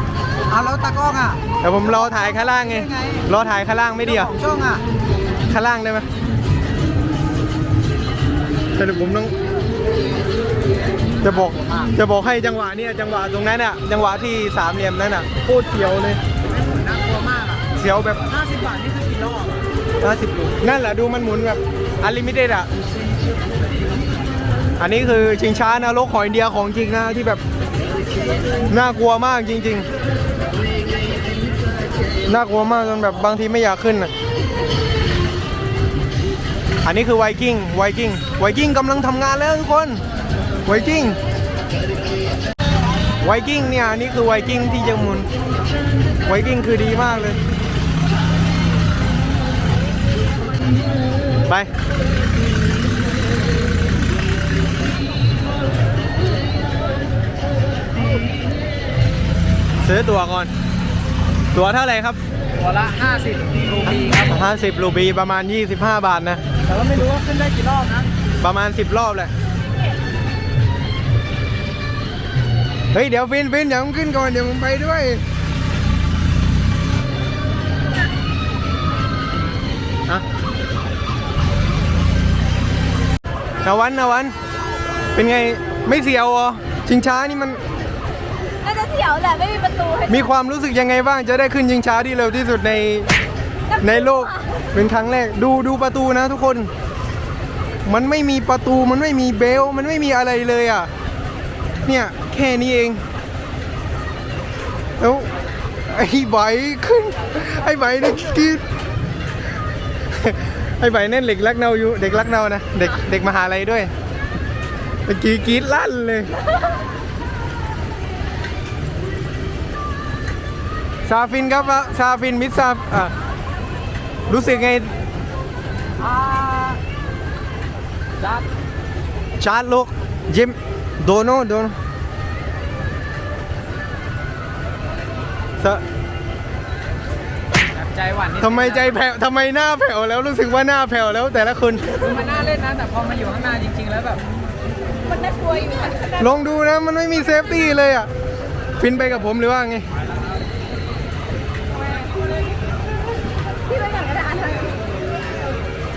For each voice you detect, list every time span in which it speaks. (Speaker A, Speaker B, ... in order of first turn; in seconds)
Speaker A: 0.5-1.4, 2.5-3.3, 4.0-4.8, 11.3-11.9, 16.5-17.6, 18.2-19.6, 62.6-64.3, 66.7-68.1, 126.0-126.8, 137.7-138.9, 141.9-144.2
Speaker B: 1.6-4.3, 5.5-6.1, 8.8-9.3, 11.2-16.2, 17.8-18.2, 20.0-22.7, 24.8-27.4, 28.7-29.9, 32.2-34.1, 36.8-40.0, 40.6-41.2, 43.2-45.3, 46.3-47.4, 59.8-60.5, 61.5-62.2, 64.3-66.4, 68.4-69.3, 72.9-75.2, 83.6-84.3, 85.1-87.6, 90.1-93.1, 93.8-96.7, 97.8-100.9, 101.8-103.0, 105.0-105.3, 105.9-108.6, 110.1-113.9, 115.1-116.4, 121.1-123.1, 124.3-124.9, 129.4-131.8, 138.4-142.0, 146.2-148.1, 148.8-149.9
Speaker C: 88.6-90.2, 94.1-94.4, 145.0-146.2, 153.7-154.8